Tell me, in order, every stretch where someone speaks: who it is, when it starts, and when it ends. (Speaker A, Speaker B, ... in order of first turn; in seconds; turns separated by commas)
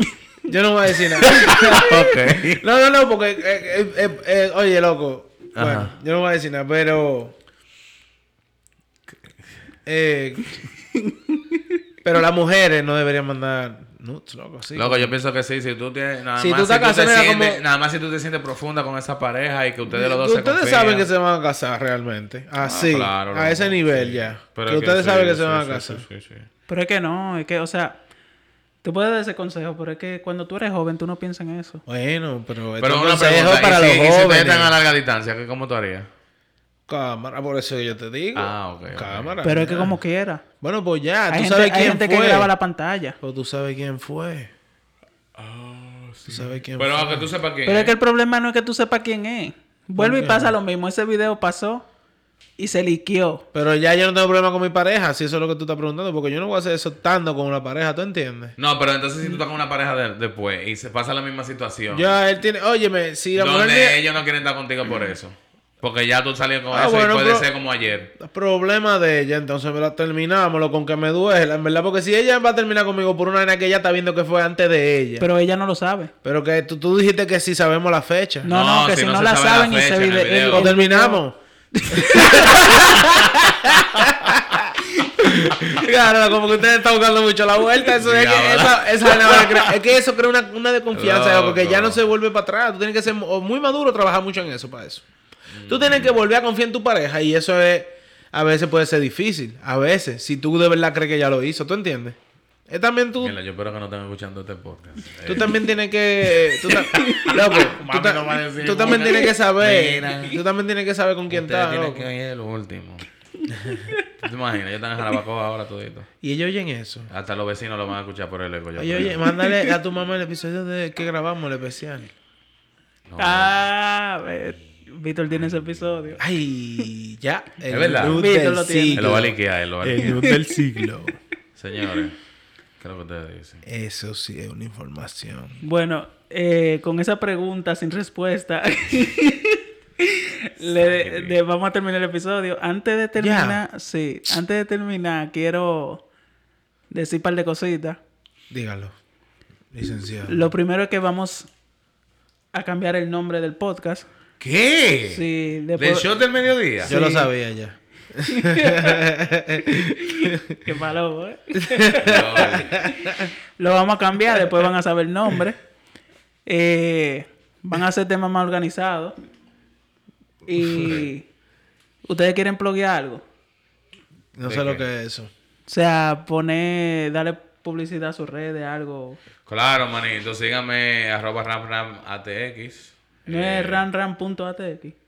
Speaker A: 0.4-7.3, Speaker B: 1.2-1.8, Speaker C: 1.4-2.6, Speaker C: 5.5-5.9, Speaker A: 9.8-10.6, Speaker A: 12.0-15.1, Speaker C: 14.7-21.1, Speaker A: 16.4-17.6, Speaker A: 19.9-26.0, Speaker C: 22.6-26.5, Speaker B: 26.7-28.0, Speaker B: 28.8-31.8, Speaker A: 31.9-34.7, Speaker C: 32.8-36.1, Speaker A: 36.9-40.0, Speaker C: 38.3-39.4, Speaker B: 39.4-40.4, Speaker A: 40.6-42.5, Speaker B: 41.3-43.1, Speaker A: 43.2-44.5, Speaker C: 45.3-48.0, Speaker A: 46.2-47.3, Speaker B: 47.6-51.8, Speaker A: 50.0-50.5, Speaker B: 52.6-53.4, Speaker A: 53.5-58.6, Speaker C: 58.6-62.1, Speaker A: 61.9-64.0, Speaker C: 63.3-68.1, Speaker A: 66.7-67.5, Speaker A: 68.2-75.2, Speaker B: 75.2-76.1, Speaker A: 76.2-78.5, Speaker B: 78.4-81.2, Speaker C: 78.4-80.7, Speaker A: 80.5-81.3, Speaker B: 81.7-83.0, Speaker A: 81.9-95.0, Speaker C: 82.6-84.5, Speaker C: 87.9-89.8, Speaker C: 90.9-92.0, Speaker C: 95.5-96.2, Speaker A: 95.7-102.2, Speaker A: 102.7-103.4, Speaker C: 103.2-105.6, Speaker A: 105.2-112.1, Speaker B: 106.7-107.3, Speaker C: 107.0-110.4, Speaker C: 111.3-113.0, Speaker C: 114.1-116.1, Speaker A: 116.2-117.1, Speaker C: 117.1-119.2, Speaker A: 118.8-122.1, Speaker B: 119.3-119.7, Speaker C: 123.1-123.7, Speaker B: 123.2-126.2, Speaker C: 125.4-125.8, Speaker A: 126.2-131.2, Speaker C: 127.7-128.2, Speaker B: 128.1-129.1, Speaker C: 128.9-130.3, Speaker B: 130.0-130.6, Speaker C: 131.6-132.2, Speaker C: 132.8-133.6, Speaker A: 133.6-135.6, Speaker B: 135.6-146.0, Speaker C: 140.7-141.4, Speaker A: 143.2-143.6, Speaker B: 146.9-148.0, Speaker A: 148.5-148.9, Speaker A: 149.7-150.5, Speaker B: 150.2-151.5, Speaker B: 152.5-154.1, Speaker C: 154.4-155.2, Speaker B: 155.1-156.1, Speaker C: 155.8-156.9, Speaker B: 156.8-157.3, Speaker A: 156.9-160.6, Speaker B: 158.2-159.1, Speaker B: 159.6-165.6, Speaker A: 161.7-163.2, Speaker C: 162.0-162.8, Speaker B: 166.4-169.1, Speaker B: 170.4-171.2, Speaker B: 172.1-173.2, Speaker A: 174.4-175.3, Speaker C: 174.4-174.8, Speaker B: 175.7-179.2, Speaker C: 179.4-183.8, Speaker B: 183.2-184.9